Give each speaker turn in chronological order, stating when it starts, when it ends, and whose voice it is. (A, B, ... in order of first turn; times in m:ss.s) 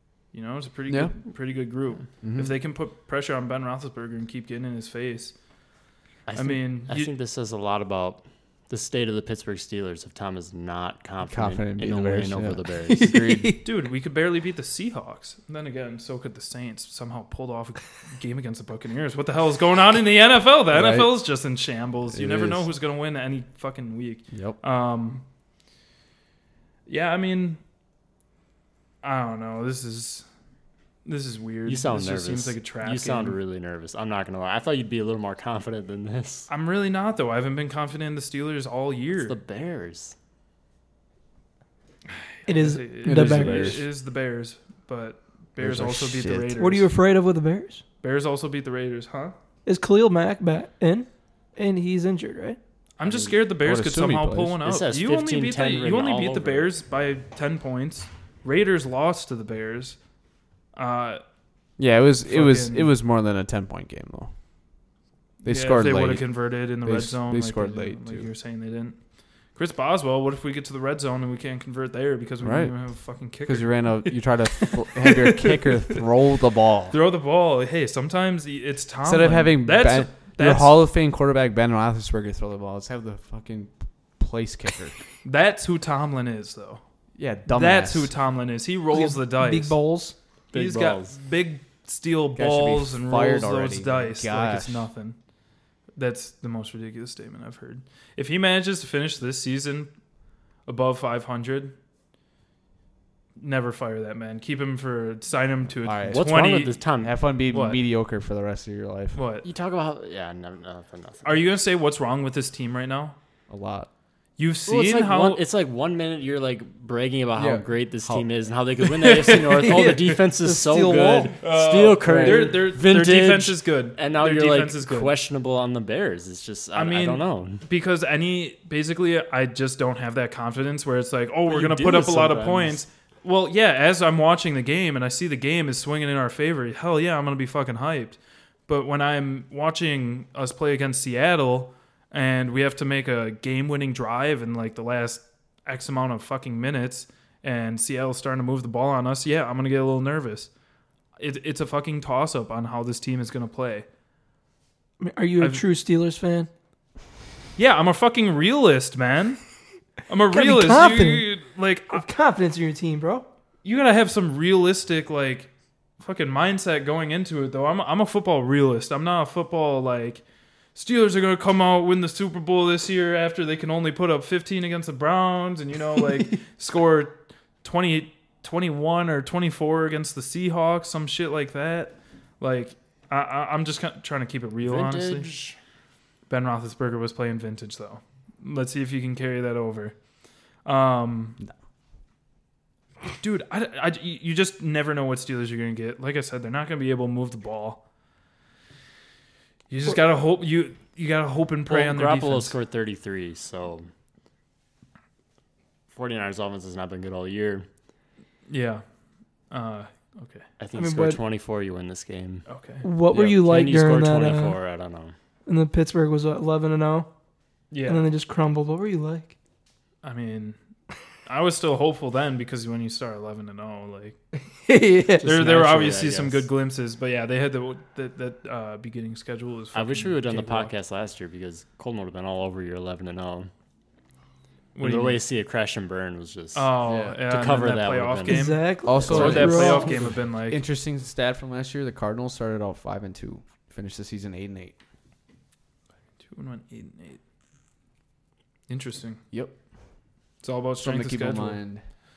0:00.3-0:05.4 A
0:02.2-0:02.5 B
0:06.3-0:13.2 C
0:06.3-0:07.1 A
0:11.2-0:13.6 B
0:12.9-0:13.6 D
0:13.6-0:25.2 A
0:20.7-0:21.2 B
0:22.1-0:22.7 B
0:24.3-0:24.6 B
0:26.9-0:27.6 A
0:29.0-0:30.3 A
0:31.0-0:33.4 A
0:31.6-0:36.5 C
0:36.5-0:39.4 A
0:39.2-0:40.1 C
0:42.4-0:46.9 A
0:42.4-0:43.8 D
0:43.0-0:43.8 B
0:45.6-0:46.6 B
0:46.6-0:47.8 D
0:48.0-0:49.3 A
0:49.6-0:52.6 D
0:53.0-1:00.0 A
0:53.6-0:54.6 B
0:54.6-0:56.7 C
1:00.7-1:01.2 A
1:01.8-1:04.3 B
1:02.2-1:02.9 A
1:05.4-1:09.0 A
1:05.4-1:08.3 B
1:09.5-1:16.1 A
1:12.4-1:17.0 B
1:16.9-1:20.8 A
1:19.0-1:25.0 B
1:25.2-1:26.8 A
1:27.2-1:28.1 B
1:27.5-1:29.8 A
1:28.9-1:30.2 D
1:30.5-1:31.2 C
1:30.5-1:35.2 A
1:32.4-1:34.9 B
1:36.0-1:39.9 A
1:40.6-1:41.8 A
1:43.4-1:46.8 A
1:45.8-1:46.3 B
1:46.1-1:47.1 C
1:47.0-1:49.2 B
1:47.5-1:47.8 A
1:49.1-1:49.5 A
1:49.4-1:51.4 C
1:51.2-1:53.2 A
1:53.5-1:53.9 B
1:54.4-1:55.4 A
1:54.6-2:07.6 C
1:57.4-1:58.2 B
1:58.9-2:00.2 A
1:59.6-2:01.4 D
2:01.4-2:05.1 A
2:02.0-2:02.6 B
2:06.7-2:30.5 A
2:11.5-2:12.8 C
2:31.2-2:33.8 A
2:35.0-2:36.5 D
2:37.6-2:39.4 A
2:40.1-2:42.0 A
2:40.3-2:41.3 D
2:41.9-2:43.3 D
2:43.6-2:50.2 A
2:50.7-3:05.3 A
3:04.6-3:05.6 C
3:06.3-3:09.9 A
3:10.6-3:11.4 A
3:13.2-3:17.8 A
3:19.7-3:22.5 A
3:21.6-3:23.9 C
3:25.9-3:27.7 C
3:28.5-3:28.8 A
3:29.5-3:30.4 A
3:30.6-3:32.4 C
3:30.7-3:31.2 D
3:32.5-3:32.8 A
3:32.8-3:34.6 D
3:33.1-3:35.1 C
3:35.4-3:37.1 D
3:37.7-3:38.0 A
3:37.8-3:39.3 D
3:40.0-3:40.6 A
3:41.2-3:44.2 A
3:44.6-3:45.2 D
3:45.2-3:46.5 C
3:45.2-3:50.7 A
3:49.7-3:53.5 C
3:54.7-3:55.2 A
3:54.8-3:56.7 C
3:56.5-4:00.6 A
3:56.8-3:57.2 B
3:57.3-3:58.5 C
3:58.2-4:00.1 D
3:58.8-4:04.7 B
4:06.2-4:07.2 A
4:08.7-4:09.2 A
4:09.3-4:09.6 B
4:10.4-4:11.6 A
4:10.8-4:11.8 B